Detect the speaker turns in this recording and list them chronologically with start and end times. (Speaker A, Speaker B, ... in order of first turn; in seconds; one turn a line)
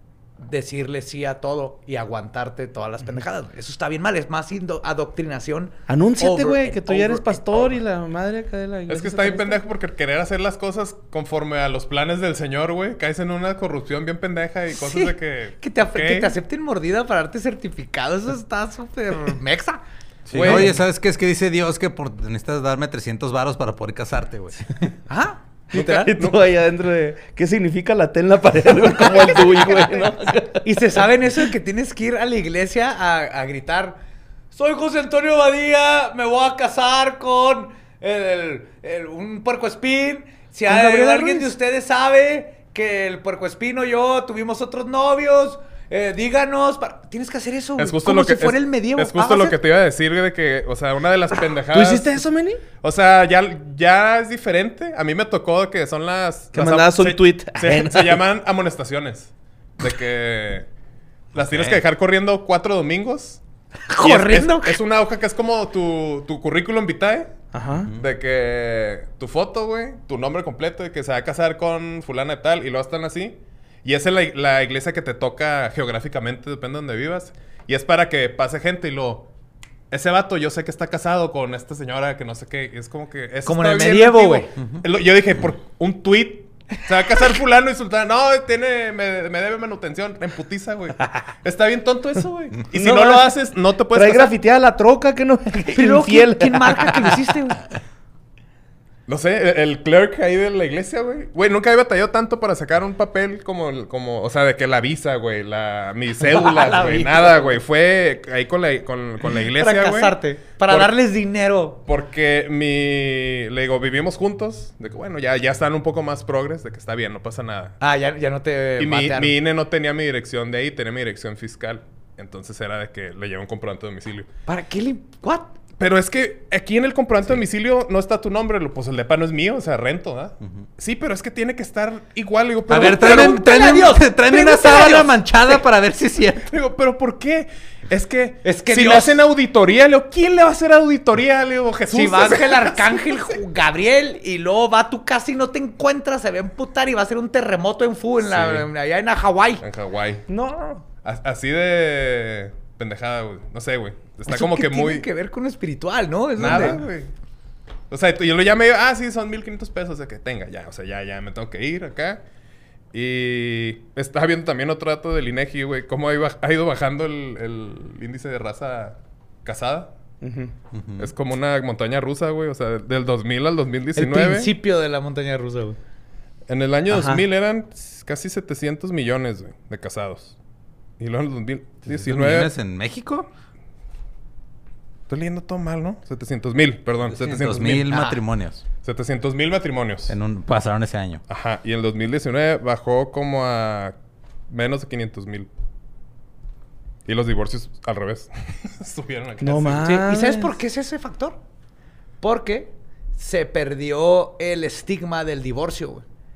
Speaker A: 0.4-7.8
Speaker B: 5.9-9.6
Speaker C: 8.9-16.4
Speaker A: 14.7-19.8
Speaker D: 20.3-24.9
Speaker C: 20.3-20.8
Speaker B: 20.4-20.6
Speaker A: 25.1-26.1
Speaker B: 25.7-30.8
Speaker C: 25.8-26.4
Speaker A: 30.6-34.0
Speaker A: 34.5-49.6
Speaker B: 40.7-41.5
Speaker C: 47.8-52.2
Speaker B: 51.7-52.6
Speaker C: 52.8-60.7
Speaker B: 56.5-58.2
Speaker C: 61.3-63.4
Speaker D: 61.4-61.8
Speaker A: 63.9-64.8
Speaker C: 64.0-67.4
Speaker B: 67.5-67.9
Speaker C: 67.9-79.3
Speaker C: 79.9-94.3
Speaker A: 83.4-84.5
Speaker B: 92.7-93.4
Speaker B: 93.9-97.2
Speaker A: 95.7-97.6
Speaker C: 99.1-110.9
Speaker A: 106.2-107.6
Speaker A: 109.3-111.8
Speaker C: 111.8-117.8
Speaker A: 117.8-119.3
Speaker C: 118.8-124.3
Speaker A: 124.5-125.5
Speaker C: 125.8-133.4
Speaker D: 132.7-136.5
Speaker A: 132.7-135.2
Speaker C: 136.5-143.2
Speaker A: 138.4-139.2
Speaker A: 141.9-149.6
Speaker C: 148.2-148.7
Speaker C: 149.6-150.3
Speaker B: 150.3-150.8
Speaker C: 151.0-155.1
Speaker A: 154.3-156.8
Speaker C: 156.3-157.1
Speaker C: 157.9-162.2
Speaker C: 162.9-169.9
Speaker B: 170.2-170.5
Speaker D: 170.7-171.1
Speaker C: 171.0-174.5
Speaker A: 173.9-175.8
Speaker C: 176.5-180.3
Speaker B: 176.9-177.2
Speaker C: 181.0-182.5
Speaker D: 181.8-183.3
Speaker C: 185.1-188.0
Speaker D: 187.1-188.6
Speaker A: 187.9-188.2
Speaker C: 188.8-190.1
Speaker D: 190.1-191.2
Speaker C: 191.3-193.9
Speaker C: 194.5-195.5
Speaker C: 197.0-200.0
Speaker B: 199.4-200.6
Speaker A: 199.8-201.4
Speaker A: 202.2-206.0